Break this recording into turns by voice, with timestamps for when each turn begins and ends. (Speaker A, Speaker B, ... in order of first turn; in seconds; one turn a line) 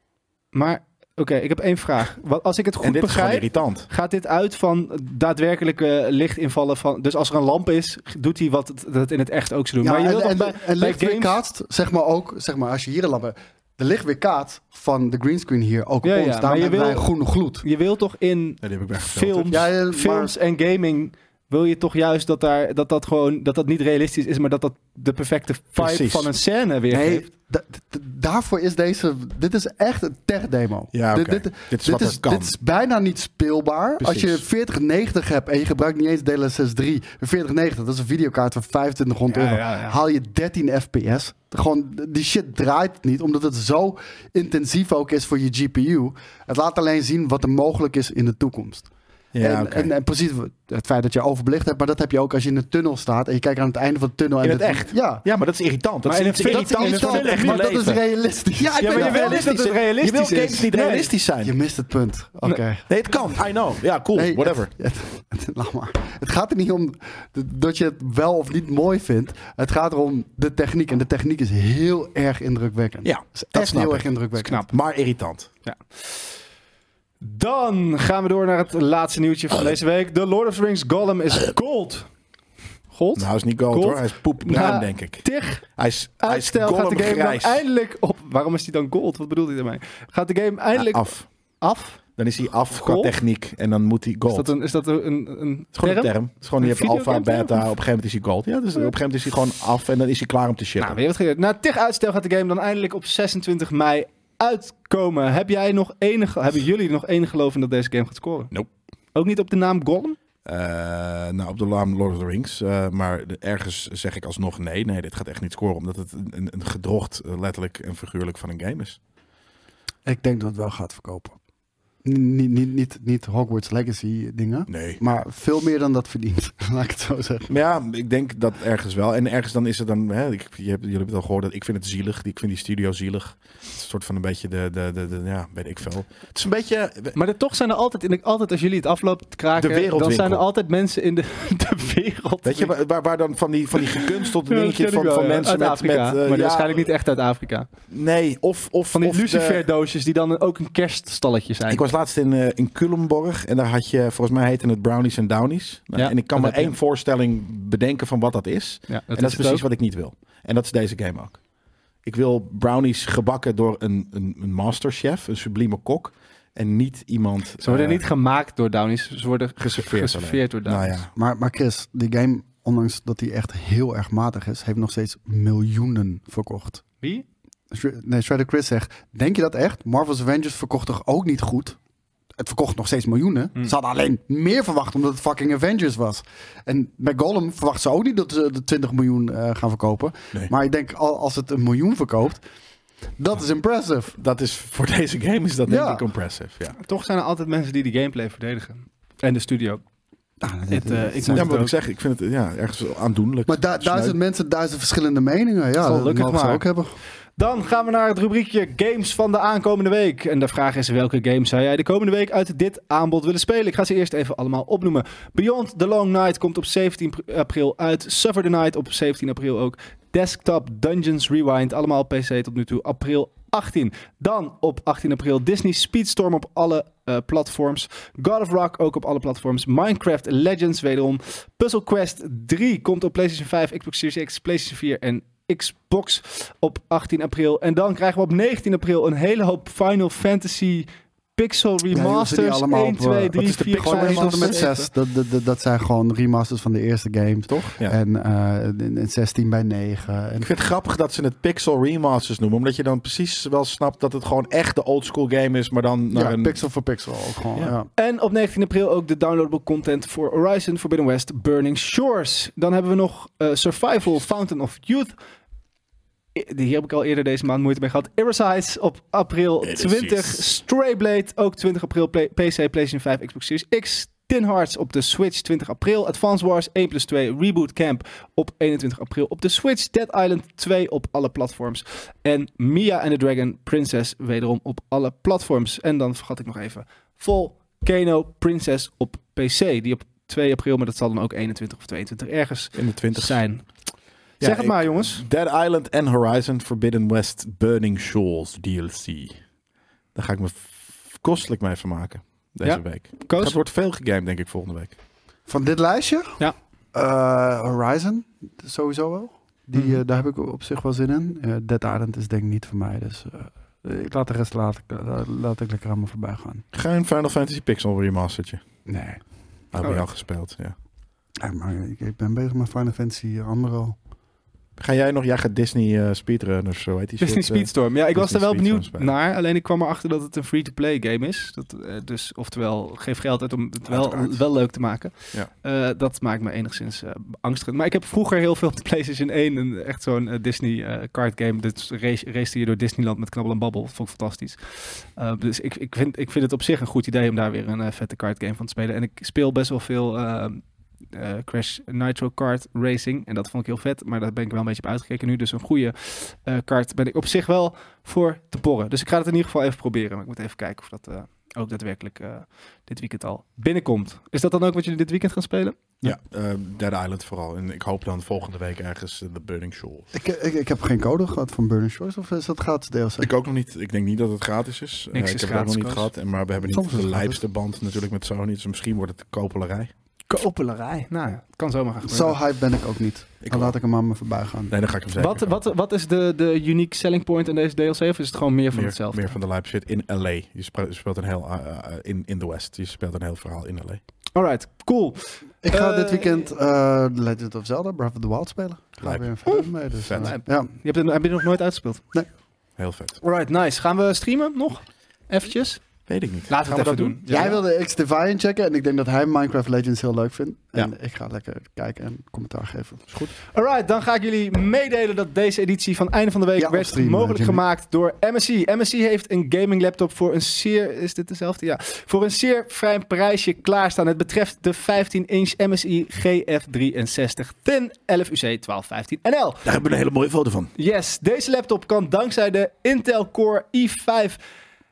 Speaker A: 0.5-11.4
Speaker B: 2.8-3.9
Speaker C: 9.8-17.6
Speaker A: 16.0-17.1
Speaker A: 17.6-27.3
Speaker B: 18.6-19.6
Speaker C: 19.5-20.3
Speaker B: 25.8-26.3
Speaker C: 26.9-55.2
Speaker B: 30.9-32.5
Speaker B: 34.0-34.4
Speaker A: 39.3-40.0
Speaker B: 49.3-49.9
Speaker A: 54.4-54.9
Speaker B: 55.2-58.0
Speaker A: 56.0-57.7
Speaker C: 56.4-59.6
Speaker B: 58.5-61.5
Speaker A: 58.8-61.1
Speaker C: 61.4-63.4
Speaker B: 62.9-64.7
Speaker C: 64.1-74.6
Speaker B: 73.0-75.5
Speaker A: 75.6-76.3
Speaker A: 77.2-82.1
Speaker A: 82.9-85.6
Speaker B: 83.2-87.6
Speaker A: 86.2-92.0
Speaker B: 90.7-91.3
Speaker B: 92.2-94.5
Speaker A: 92.7-93.1
Speaker A: 94.3-97.6
Speaker B: 95.7-101.0
Speaker A: 100.8-108.5
Speaker A: 109.1-110.2
Speaker B: 110.4-119.0
Speaker C: 120.0-121.4
Speaker C: 122.0-127.5
Speaker B: 124.7-125.0
Speaker B: 127.5-137.1
Speaker A: 137.1-142.7
Speaker B: 139.6-140.4
Speaker B: 142.4-146.9
Speaker A: 143.9-147.7
Speaker B: 147.9-149.6
Speaker A: 148.9-151.8
Speaker B: 151.7-161.4
Speaker A: 155.9-156.7
Speaker A: 158.9-159.7
Speaker B: 162.0-168.0
Speaker A: 167.6-170.9
Speaker B: 169.6-171.1
Speaker C: 171.1-176.8
Speaker A: 177.0-177.2
Speaker C: 177.7-181.8
Speaker C: 182.4-192.4
Speaker C: 193.2-194.2
Speaker B: 194.2-196.8
Speaker C: 195.7-196.0
Speaker A: 196.8-199.8
Speaker C: 200.4-201.5
Speaker A: 200.7-201.7
Speaker B: 201.3-204.2
Speaker C: 203.5-206.9
Speaker A: 205.8-206.6
Speaker A: 207.4-244.9
Speaker C: 241.9-250.5
Speaker B: 243.4-244.7
Speaker B: 247.5-247.9
Speaker B: 250.4-256.6
Speaker C: 256.1-257.9
Speaker A: 258.0-265.1
Speaker A: 266.3-293.6
Speaker B: 269.6-270.4
Speaker B: 292.7-293.4
Speaker A: 294.4-295.2
Speaker B: 294.4-299.4
Speaker B: 300.1-305.0
Speaker A: 302.6-303.5
Speaker C: 305.5-306.4
Speaker C: 306.9-316.6
Speaker A: 309.7-310.0
Speaker B: 316.7-318.6
Speaker C: 318.9-319.2
Speaker B: 319.7-320.8
Speaker C: 321.4-323.9
Speaker B: 324.8-329.1
Speaker A: 327.2-365.8
Speaker B: 333.9-334.4
Speaker B: 366.0-370.1
Speaker C: 370.1-373.3
Speaker B: 373.2-379.9
Speaker A: 375.1-376.1
Speaker C: 376.7-377.4
Speaker A: 380.3-382.4
Speaker C: 382.1-384.8
Speaker B: 383.4-383.8
Speaker B: 384.7-385.6
Speaker A: 385.2-389.3
Speaker B: 388.7-394.0
Speaker A: 394.3-396.4
Speaker C: 395.6-400.7
Speaker B: 399.0-399.3
Speaker B: 400.0-400.3
Speaker A: 400.2-402.0
Speaker B: 402.8-403.2
Speaker A: 403.2-405.8
Speaker B: 406.1-407.6
Speaker A: 406.5-407.6
Speaker C: 407.3-413.1
Speaker B: 413.1-413.3
Speaker A: 413.5-429.6
Speaker C: 416.6-417.6
Speaker B: 429.6-430.7
Speaker A: 430.8-434.4